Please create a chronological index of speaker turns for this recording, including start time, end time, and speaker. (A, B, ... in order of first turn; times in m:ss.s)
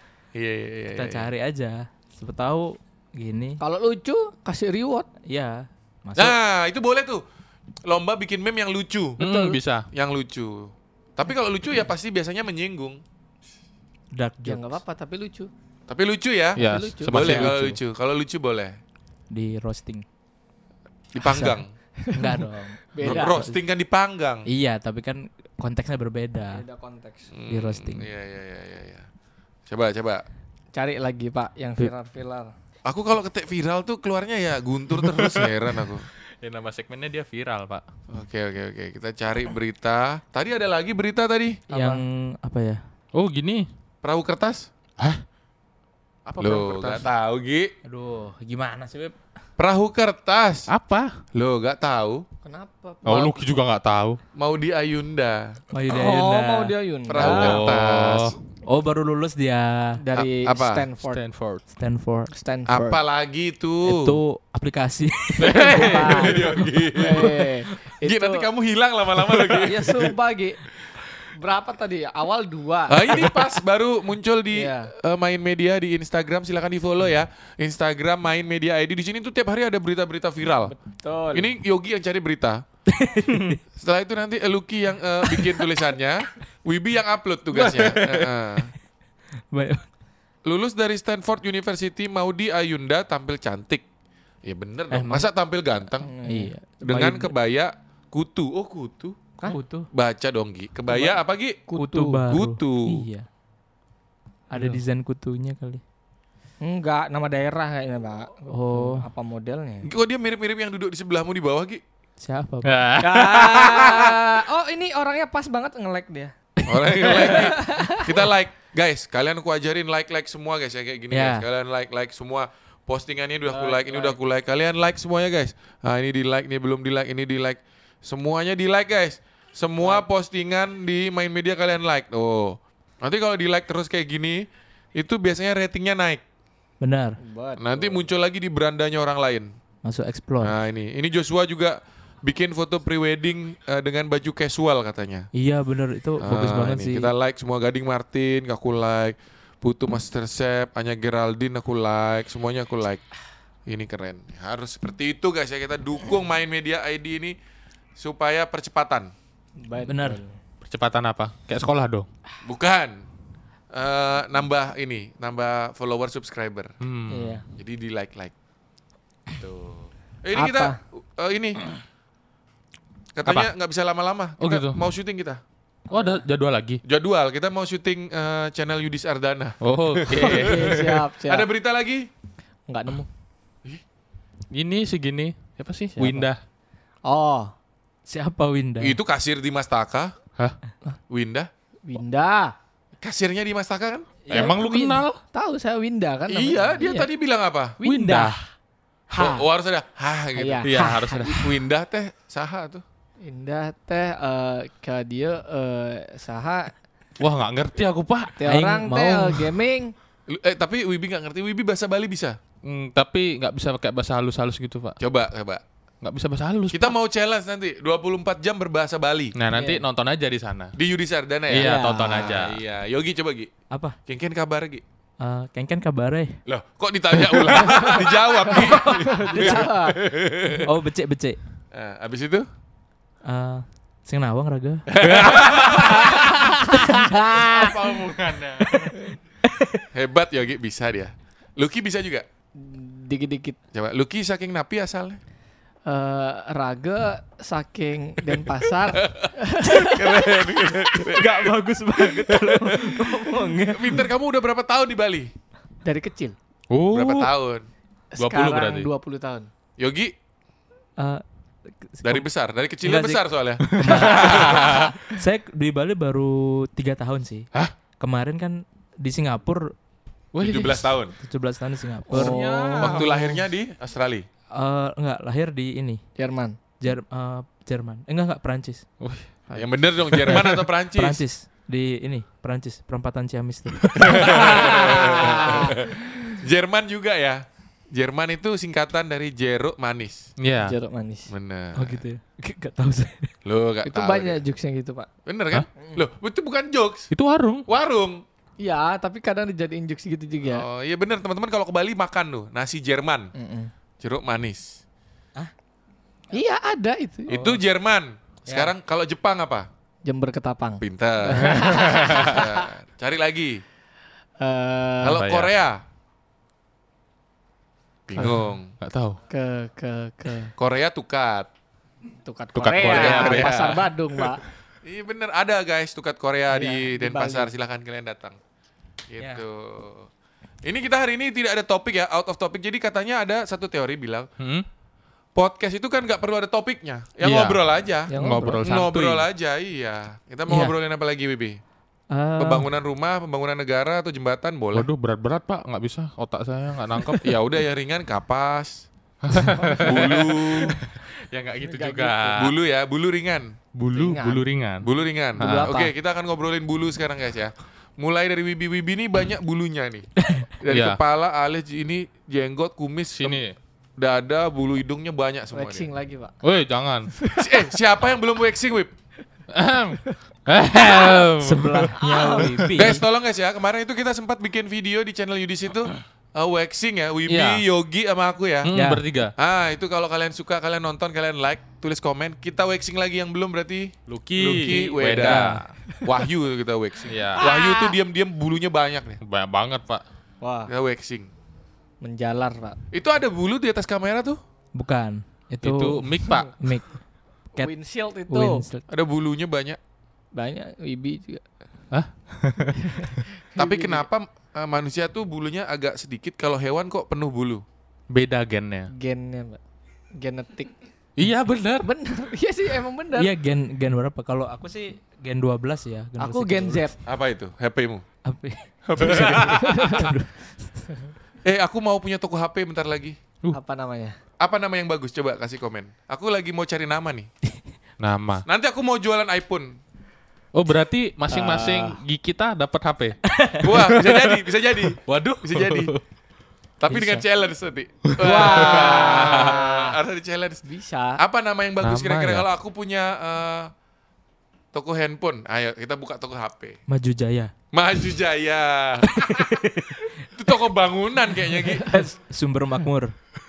0:00.4-0:01.3 A
0:00.9-0:03.6 B
0:03.6-0:05.1 C
0:05.3-0:06.4 B
0:06.2-0:07.2 A
0:07.8-0:09.2 A
0:09.2-0:09.6 C
0:09.2-0:09.9 D
0:09.9-0:13.0 A
0:14.1-0:14.8 B
0:14.5-0:15.5 C
0:15.9-0:18.8 A
0:16.6-0:17.8 D
0:16.6-0:17.5 C
0:19.3-0:20.0 B
0:21.1-0:21.7 A
0:21.2-0:21.6 B
0:22.0-0:23.4 C
0:22.1-0:23.5 B
0:23.0-0:24.5 A
0:24.5-0:26.6 B
0:26.5-0:27.3 C
0:27.3-0:29.1 A
0:27.5-0:28.1 B
0:29.7-0:30.2 A
0:30.7-0:32.5 C
0:32.8-0:36.1 A
0:35.0-0:35.5 D
0:36.4-0:37.8 D
0:38.1-0:41.6 A
0:41.7-0:42.0 C
0:41.7-0:42.8 B
0:43.1-0:43.7 D
0:44.0-0:44.7 A
0:46.3-0:47.0 D
0:46.4-0:47.7 A
0:47.8-0:49.2 B
0:49.6-0:50.7 A
0:50.7-0:51.1 D
0:51.3-0:52.2 A
0:52.4-0:53.5 C
0:53.0-0:54.2 D
0:54.4-0:55.6 A
0:55.7-0:56.7 B
0:55.9-0:57.7 C
0:57.1-0:58.4 A
0:57.2-0:58.4 D
0:58.7-1:00.0 B
1:00.0-1:01.2 C
1:00.1-1:00.9 A
1:01.0-1:01.6 D
1:01.8-1:02.3 B
1:02.3-1:03.0 C
1:02.7-1:04.2 A
1:03.8-1:07.0 B
1:05.4-1:07.5 A
1:05.6-1:08.5 C
1:08.0-1:10.1 A
1:09.6-1:10.6 C
1:11.3-1:13.4 C
1:12.9-1:20.8 A
1:14.5-1:14.9 C
1:20.7-1:21.5 C
1:21.3-1:22.6 A
1:22.9-1:23.6 B
1:23.8-1:28.7 A
1:25.3-1:25.6 B
1:27.6-1:28.2 D
1:29.5-1:29.9 B
1:30.4-1:33.8 A
1:34.4-1:36.1 A
1:34.9-1:35.3 B
1:36.0-1:36.5 C
1:36.2-1:37.3 B
1:36.8-1:41.6 A
1:39.4-1:39.9 B
1:40.9-1:41.2 C
1:41.7-1:42.2 C
1:41.8-1:43.3 B
1:42.2-1:43.1 A
1:44.5-1:45.8 B
1:46.6-1:49.9 C
1:48.5-1:49.1 B
1:49.8-1:51.8 A
1:52.2-1:52.9 B
1:52.6-1:54.2 D
1:53.0-1:56.3 C
1:56.7-2:16.2 A
1:57.0-1:58.2 C
2:01.1-2:01.5 B
2:03.5-2:04.2 C
2:16.8-2:17.2 B
2:17.2-2:18.1 C
2:17.6-2:19.5 A
2:19.8-2:20.6 B
2:20.4-2:25.3 A
2:25.3-2:27.1 B
2:26.2-2:33.0 A
2:33.7-2:37.4 A
2:38.0-2:39.1 A
2:39.6-2:40.4 C
2:39.8-2:40.2 B
2:40.6-2:42.1 D
2:42.4-2:43.0 A
2:43.7-2:46.8 A
2:46.8-2:47.4 D
2:47.1-2:47.4 C
2:47.6-2:48.3 A
2:49.4-2:51.7 A
2:50.3-2:50.8 C
2:53.2-2:55.4 A
2:53.3-2:53.5 D
2:54.4-2:54.8 D
2:55.9-2:56.8 D
2:55.9-2:56.2 C
2:56.8-3:02.1 A
2:59.6-3:01.1 D
3:00.1-3:01.5 C
3:02.7-3:03.1 C
3:04.5-3:06.4 D
3:06.0-3:06.3 C
3:07.0-3:07.5 C
3:08.1-3:09.0 B
3:08.8-3:10.1 A
3:11.1-3:11.5 A
3:11.9-3:12.6 C
3:13.0-3:14.1 A
3:14.2-3:14.6 B
3:14.3-3:15.2 D
3:14.3-3:17.1 C
3:16.3-3:17.8 A
3:17.8-3:18.4 C
3:17.8-3:18.4 D
3:19.1-3:19.4 C
3:19.1-3:20.7 A
3:20.4-3:21.4 C
3:20.6-3:21.5 D
3:21.2-3:22.8 A
3:23.2-3:26.7 C
3:27.2-3:28.4 D
3:28.4-3:29.9 C
3:28.5-3:29.5 B
3:30.3-3:32.4 A
3:32.6-3:35.0 D
3:35.0-3:35.6 A
3:36.0-3:36.9 D
3:36.7-3:39.4 A
3:39.4-3:40.8 D
3:39.5-3:39.8 C
3:40.8-3:43.5 A
3:41.5-3:42.6 D
3:41.6-3:42.4 C
3:43.7-3:44.0 B
3:44.1-3:44.8 A
3:45.2-3:46.4 B
3:46.5-3:50.7 A
3:47.6-3:50.0 C
3:48.5-3:49.7 B
3:50.6-3:51.4 B
3:51.7-3:52.5 A
3:53.2-3:54.9 B
3:54.9-3:56.8 A
3:55.0-3:56.1 D
3:56.1-3:57.8 C
3:57.3-3:59.0 D
3:57.6-3:58.0 A
3:59.4-3:59.8 B
3:59.9-4:02.3 A
4:02.6-4:03.6 C
4:03.7-4:05.2 A
4:05.9-4:10.3 C
4:08.9-4:11.5 A
4:11.1-4:14.1 B
4:12.3-4:13.0 A
4:13.6-4:15.3 A
4:15.8-4:16.4 C
4:16.7-4:17.3 D
4:16.9-4:17.7 A
4:18.1-4:19.5 C
4:18.2-4:18.9 D
4:19.8-4:20.1 A
4:21.0-4:21.2 B
4:21.8-4:22.3 B
4:22.0-4:24.9 A
4:22.8-4:27.5 B
4:23.7-4:25.0 D
4:28.0-4:29.7 B
4:30.3-4:30.9 D
4:30.4-4:31.2 A
4:31.2-4:32.4 B
4:32.1-4:33.1 C
4:32.1-4:33.4 D
4:32.8-4:34.3 A
4:34.5-4:36.0 B
4:36.2-4:36.6 C
4:36.8-4:38.8 B
4:39.0-4:39.3 D
4:39.5-4:41.2 A
4:40.1-4:40.6 D
4:40.9-4:44.6 B
4:43.8-4:44.2 D
4:44.0-4:50.3 A
4:44.2-4:46.4 C
4:50.4-4:50.8 D
4:50.6-4:51.3 C
4:51.3-4:52.0 A
4:51.8-4:53.3 B
4:53.4-4:54.4 A
4:53.8-4:55.1 C
4:55.3-4:57.1 A
4:57.1-4:57.7 D
4:57.7-4:58.2 A
4:58.6-5:00.7 C
5:00.4-5:03.3 A
5:03.3-5:03.7 C
5:04.0-5:04.8 A
5:06.3-5:07.6 C
5:07.3-5:09.7 A
5:10.0-5:12.7 C
5:10.8-5:13.6 A
5:11.4-5:12.2 D
5:14.4-5:15.2 C
5:15.0-5:15.8 A
5:15.1-5:15.5 D
5:18.1-5:18.7 A
5:18.2-5:19.2 D
5:19.3-5:20.5 C
5:20.6-5:21.5 A
5:22.2-5:24.4 C
5:22.6-5:24.3 D
5:22.8-5:23.8 A
5:24.8-5:28.4 A
5:26.5-5:27.5 C
5:29.1-5:30.1 A
5:30.6-5:34.3 A
5:34.4-5:34.7 D
5:35.4-5:41.6 A
5:37.2-5:39.2 D
5:38.1-5:38.6 C
5:42.1-5:42.7 B
5:42.4-5:44.9 A
5:44.7-5:47.4 D
5:47.2-5:50.8 A
5:49.2-5:52.5 D
5:51.6-5:52.4 C
5:52.4-5:53.6 A
5:53.7-5:55.8 D
5:53.9-5:54.4 C
5:54.8-6:00.1 A
5:55.4-5:55.9 C
6:00.2-6:00.5 B
6:00.6-6:03.4 A
6:00.7-6:01.0 D
6:03.2-6:03.6 D
6:04.0-6:05.9 A
6:05.5-6:06.3 C
6:06.4-6:07.2 D
6:07.2-6:07.7 C
6:07.4-6:08.9 A
6:09.5-6:12.7 D
6:11.4-6:13.0 B
6:12.0-6:12.5 C
6:12.8-6:18.7 A
6:17.3-6:17.6 D
6:18.6-6:19.3 D
6:18.7-6:19.0 B
6:19.4-6:29.2 A
6:24.1-6:25.7 D
6:25.0-6:25.6 B
6:27.1-6:27.5 D
6:27.4-6:28.0 C
6:29.2-6:30.0 D
6:30.4-6:30.7 C
6:30.7-6:31.3 A
6:32.0-6:32.8 C
6:32.9-6:34.4 A
6:34.8-6:37.0 B
6:35.6-6:36.7 D
6:37.6-6:38.6 C
6:38.3-6:38.8 B
6:38.9-6:39.8 A
6:40.3-6:41.4 C
6:41.9-6:43.1 D
6:42.8-6:44.1 C
6:43.6-6:47.6 A
6:48.1-6:48.9 D
6:48.9-6:49.6 C
6:50.2-6:50.8 C
6:51.2-6:51.9 D
6:51.8-6:53.3 C
6:53.2-6:56.9 B
6:56.2-6:57.0 C
6:57.0-6:58.0 A
6:58.2-7:00.3 B
6:58.9-7:00.0 A
6:59.3-7:00.2 C
7:01.4-7:03.2 A
7:03.5-7:04.2 C
7:04.4-7:07.3 A
7:08.0-7:08.4 D
7:08.5-7:09.8 A
7:10.5-7:16.0 D
7:11.3-7:12.0 C
7:13.3-7:13.6 B
7:13.6-7:15.9 A
7:16.8-7:20.6 A
7:16.9-7:17.2 B
7:18.1-7:19.2 D
7:18.2-7:20.0 C
7:20.6-7:21.2 C
7:21.2-7:23.7 A
7:21.8-7:22.5 D
7:24.7-7:26.8 A
7:26.9-7:27.5 B
7:27.7-7:29.6 A
7:29.2-7:30.1 B
7:30.2-7:32.0 A
7:31.8-7:33.2 B